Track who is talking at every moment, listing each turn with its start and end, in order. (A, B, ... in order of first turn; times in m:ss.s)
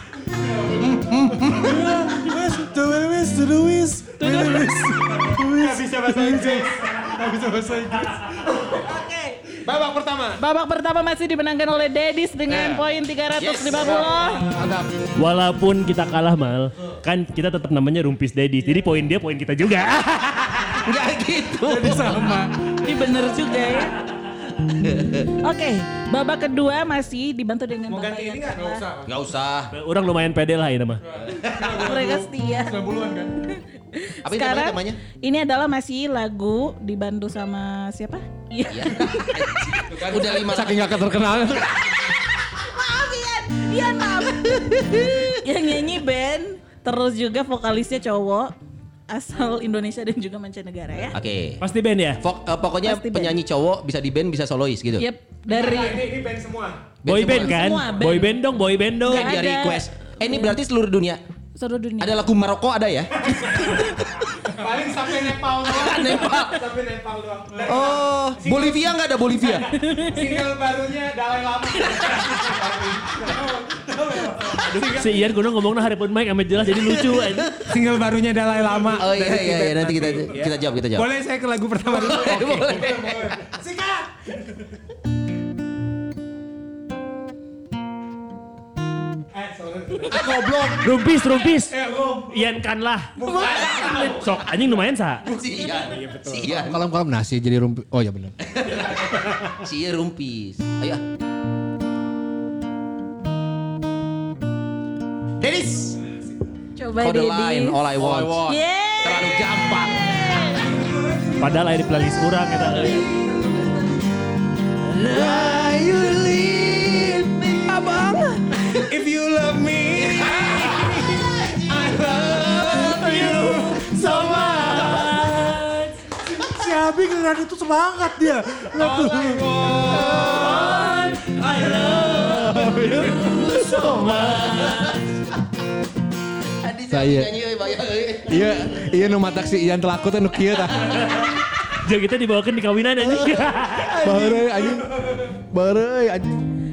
0:00.6-0:08.8 A
0:00.9-0:01.9 B
0:04.2-0:04.8 C
0:05.5-0:06.9 D
0:08.7-0:09.4 C
0:09.6-0:10.4 D
0:10.4-0:14.5 C
0:13.3-0:14.0 B
0:14.1-0:14.8 D
0:15.2-0:20.8 E
0:20.7-0:22.4 B
0:21.6-0:22.8 A
0:22.8-0:24.0 C
0:24.7-0:25.3 B
0:25.4-0:28.8 C
0:27.9-0:28.8 D
0:28.6-0:29.1 A
0:29.0-0:29.7 B
0:29.7-0:31.0 E
0:31.0-0:33.4 A
0:31.2-0:32.0 B
0:31.7-0:32.8 C
0:33.5-0:39.7 C
0:34.2-0:35.0 B
0:38.7-0:41.1 B
0:40.0-0:40.3 D
0:40.3-0:42.1 F
0:42.5-0:44.8 C
0:44.3-0:45.3 B
0:45.4-0:48.5 C
0:49.1-0:51.2 C
0:51.1-0:51.6 B
0:51.6-0:52.2 E
0:52.2-0:55.0 B
0:52.8-0:53.4 C
0:55.0-0:56.0 C
0:55.4-0:56.9 D
0:57.0-0:57.8 B
0:57.0-0:59.4 E
0:57.3-0:58.4 C
0:57.6-0:58.2 D
0:59.0-1:01.2 B
0:59.0-0:59.9 C
1:01.6-1:02.2 C
1:02.0-1:04.5 B
1:04.5-1:15.3 D
1:05.6-1:06.6 B
1:07.6-1:09.7 B
1:09.7-1:10.3 C
1:13.7-1:14.7 A
1:14.6-1:17.6 E
1:16.7-1:17.7 B
1:17.6-1:23.0 D
1:19.0-1:21.1 B
1:19.1-1:20.2 F
1:21.9-1:23.4 B
1:22.8-1:23.6 A
1:23.6-1:24.1 D
1:29.3-1:30.5 D
1:30.1-1:30.9 A
1:30.8-1:33.2 E
1:31.6-1:32.4 D
1:33.2-1:34.6 D
1:33.3-1:34.2 B
1:34.1-1:35.2 E
1:35.2-1:36.6 D
1:35.2-1:36.8 B
1:36.5-1:38.4 F
1:38.4-1:41.0 B
1:45.4-1:46.0 B
1:46.8-1:47.8 C
1:47.0-1:48.4 B
1:47.9-1:48.6 F
1:48.4-1:50.8 C
1:49.0-1:50.2 B
1:50.8-1:52.2 A
1:51.4-1:53.0 E
1:52.7-1:53.8 B
1:54.9-1:58.8 B
1:58.7-2:05.0 D
2:00.0-2:05.2 B
2:03.0-2:06.0 E
2:06.2-2:09.8 A
2:08.8-2:10.6 D
2:09.6-2:11.0 B
2:10.2-2:15.0 E
2:11.9-2:15.0 B
2:12.2-2:13.3 F
2:16.6-2:18.6 B
2:16.9-2:17.3 F
2:18.3-2:21.1 F
2:20.8-2:24.0 E
2:24.0-2:26.4 F
2:24.0-2:24.4 B